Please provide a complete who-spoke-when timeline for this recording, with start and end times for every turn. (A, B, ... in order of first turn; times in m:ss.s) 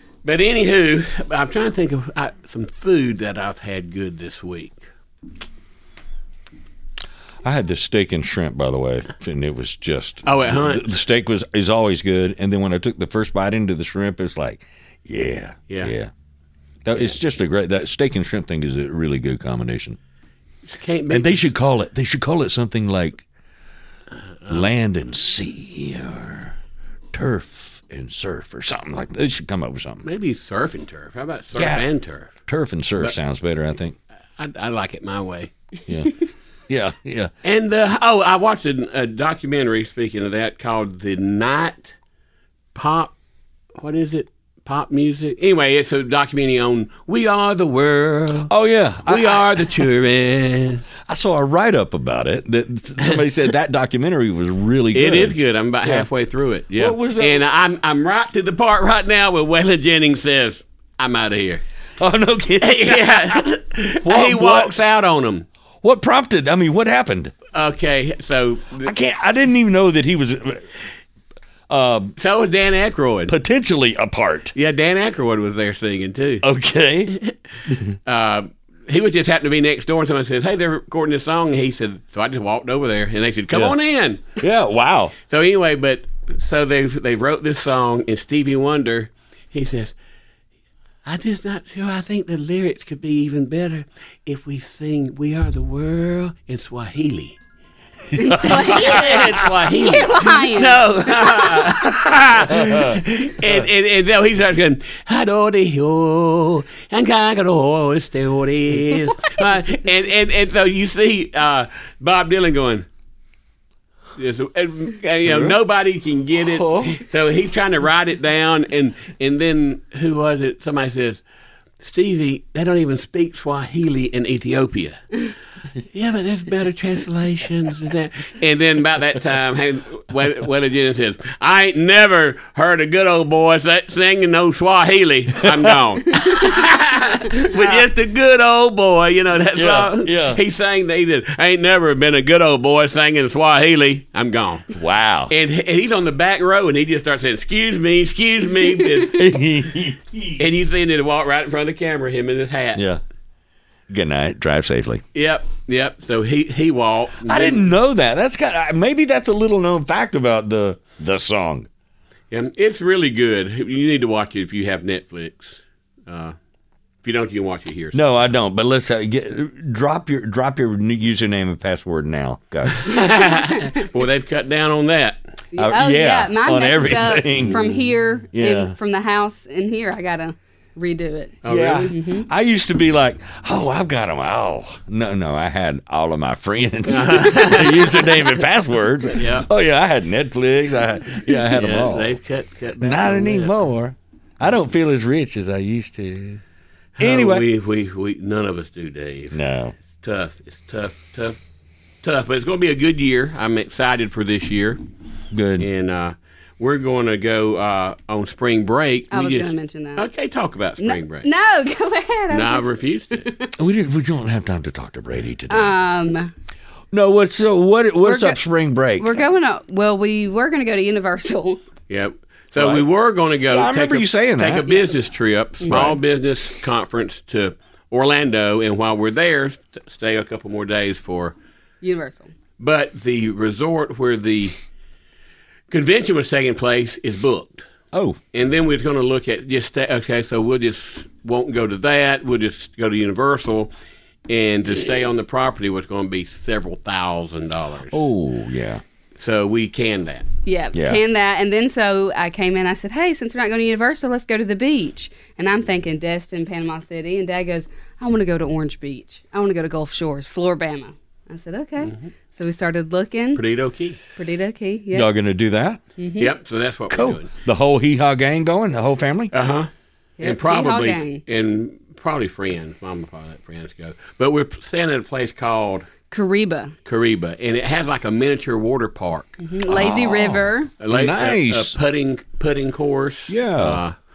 0:00.2-0:04.8 A
0:07.4-0:16.1 B
0:10.2-0:10.9 A
0:16.8-0:20.0 B
0:20.7-0:21.5 A
0:21.1-0:23.2 B
0:24.5-0:26.6 B
0:27.1-0:30.1 B
0:30.0-0:32.3 A
0:31.6-0:31.8 B
0:32.5-0:34.0 B
0:34.4-0:35.5 A
0:35.9-0:36.2 B
0:36.7-0:37.3 B
0:37.4-0:41.9 A
0:42.8-0:43.1 A
0:43.8-0:48.5 A
0:48.5-0:49.7 B
0:49.0-0:50.8 A
0:51.1-0:56.1 B
0:54.9-1:01.6 A
0:56.8-0:57.4 B
1:02.0-1:03.4 B
1:02.6-1:05.5 A
1:04.0-1:04.8 B
1:05.8-1:07.4 B
1:07.5-1:08.9 A
1:08.8-1:10.7 B
1:11.7-1:12.2 B
1:12.2-1:13.3 A
1:13.3-1:14.5 B
1:14.5-1:16.4 A
1:16.4-1:17.2 B
1:18.1-1:24.3 A
1:23.5-1:23.8 B
1:24.4-1:25.2 B
1:25.3-1:30.0 A
1:31.0-1:37.4 A
1:38.1-1:41.7 C
1:38.4-1:52.8 A
1:38.5-1:39.3 B
1:42.5-1:43.0 B
1:54.2-2:01.2 A
1:55.3-1:55.6 B
1:56.5-1:57.0 B
2:01.8-2:05.2 A
2:05.9-2:24.7 A
2:15.4-2:15.8 B
2:19.6-2:20.4 B
2:24.7-2:25.3 B
2:25.3-2:29.4 A
2:29.0-2:30.4 B
2:30.4-2:32.9 A
2:32.8-2:33.0 B
2:33.9-2:35.0 B
2:35.1-2:37.7 A
2:37.2-2:41.7 B
2:42.3-2:46.3 A
2:47.0-2:48.2 A
2:47.9-2:53.0 B
2:52.7-2:55.2 A
2:55.5-3:02.3 C
2:55.6-2:58.8 B
3:01.4-3:01.9 A
3:01.5-3:12.2 B
3:06.9-3:08.0 A
3:09.1-3:09.5 A
3:11.3-3:13.6 A
3:12.8-3:16.4 B
3:17.0-3:19.4 A
3:17.0-3:17.4 B
3:19.3-3:19.8 B
3:20.0-3:21.4 A
3:22.0-3:24.8 A
3:25.3-3:25.7 B
3:25.6-3:31.3 A
3:29.1-3:30.1 C
3:30.8-3:32.7 C
3:32.3-3:33.3 A
3:33.2-3:33.5 C
3:33.6-3:35.8 B
3:35.5-3:36.3 C
3:36.9-3:39.2 B
3:38.0-3:38.4 C
3:39.0-3:41.6 C
3:41.9-3:51.4 A
3:42.6-3:42.9 B
3:43.5-3:44.8 B
3:45.6-3:46.0 C
3:51.8-3:52.3 C
3:52.6-3:54.6 A
3:55.7-3:57.6 A
3:57.9-3:58.2 B
3:58.3-4:03.7 A
4:04.3-4:08.0 A
4:07.9-4:08.8 B
4:09.2-4:10.3 A
4:10.4-4:23.4 C
4:10.7-4:11.0 B
4:21.8-4:22.1 A
4:23.4-4:24.0 A
4:24.2-4:25.1 C
4:24.9-4:25.8 B
4:26.0-4:26.3 C
4:26.2-4:27.3 A
4:26.9-4:29.3 B
4:29.3-4:29.7 A
4:30.2-4:31.2 C
4:30.2-4:35.9 A
4:36.1-4:36.7 C
4:36.8-4:39.4 A
4:39.4-4:40.7 C
4:39.7-4:41.8 B
4:40.8-4:44.0 A
4:43.3-4:43.8 B